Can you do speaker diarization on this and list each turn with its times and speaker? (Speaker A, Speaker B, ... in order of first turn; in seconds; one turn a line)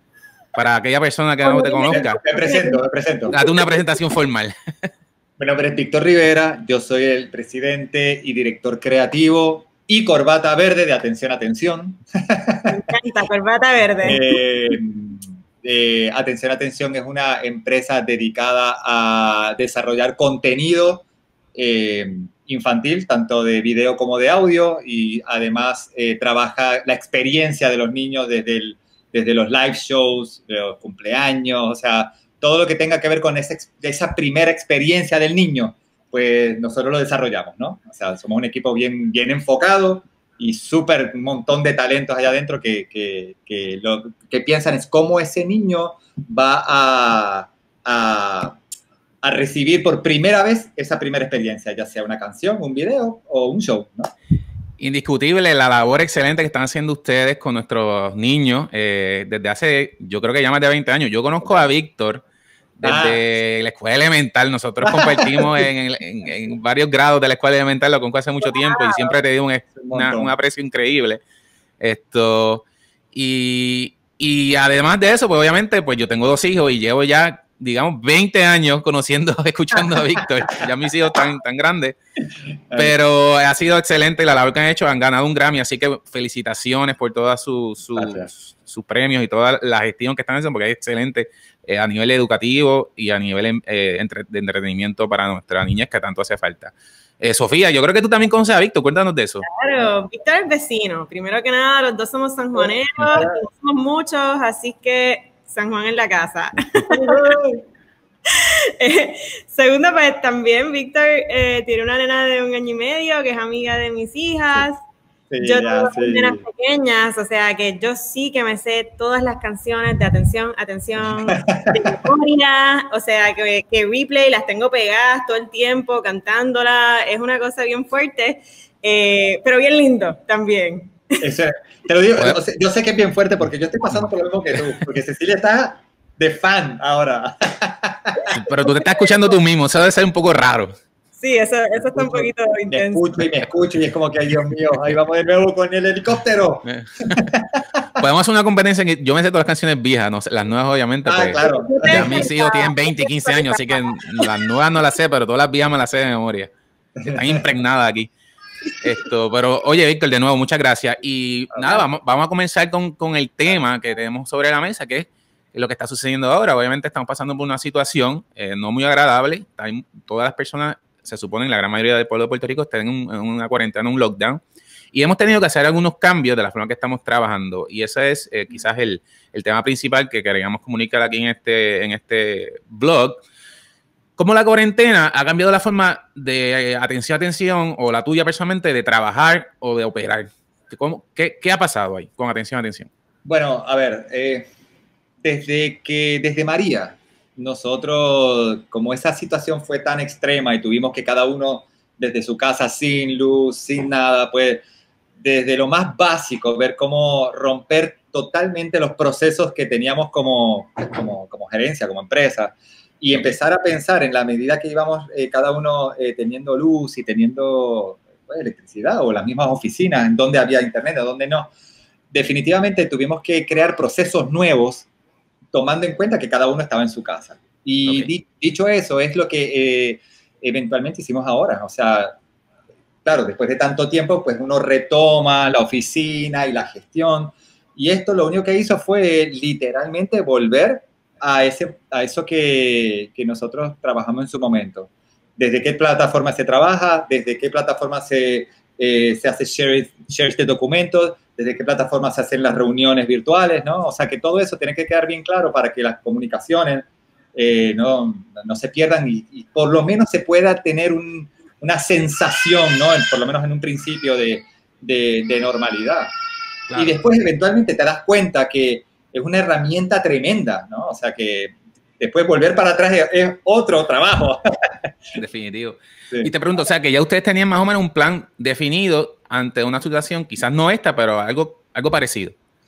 Speaker A: 0.5-2.2
Speaker B: 1.4-2.8
Speaker C: 1.9-3.4
Speaker A: 3.3-4.5
Speaker C: 5.4-12.8
Speaker B: 12.7-14.4
Speaker C: 14.0-48.6
Speaker C: 49.2-54.1
Speaker A: 54.8-62.2
Speaker A: 62.8-71.2
Speaker C: 62.8-63.2
Speaker C: 64.8-65.7
Speaker B: 68.5-69.1
Speaker C: 69.8-70.3
Speaker A: 71.8-82.0
Speaker C: 79.7-80.2
Speaker A: 82.7-99.4
Speaker C: 87.9-88.3
Speaker B: 99.4-107.3
Speaker C: 102.5-103.4
Speaker C: 106.8-107.6
Speaker B: 108.3-114.8
Speaker C: 115.3-116.4
Speaker B: 115.4-131.1
Speaker C: 121.2-121.9
Speaker C: 131.2-138.2
Speaker A: 138.3-140.7
Speaker B: 141.2-143.3
Speaker C: 141.7-148.0
Speaker A: 146.6-147.3
Speaker A: 148.0-156.5
Speaker C: 151.0-152.3
Speaker B: 151.4-154.3
Speaker C: 157.0-157.4
Speaker A: 157.0-158.1
Speaker A: 158.8-174.4
Speaker A: 174.9-183.2
Speaker A: 184.2-192.9
Speaker C: 193.2-194.5
Speaker C: 195.2-204.6
Speaker C: 205.2-221.5
Speaker C: 222.1-224.9
Speaker C: 225.5-232.2
Speaker C: 233.0-266.1
Speaker A: 266.7-267.0
Speaker C: 266.7-274.4
Speaker A: 275.1-282.3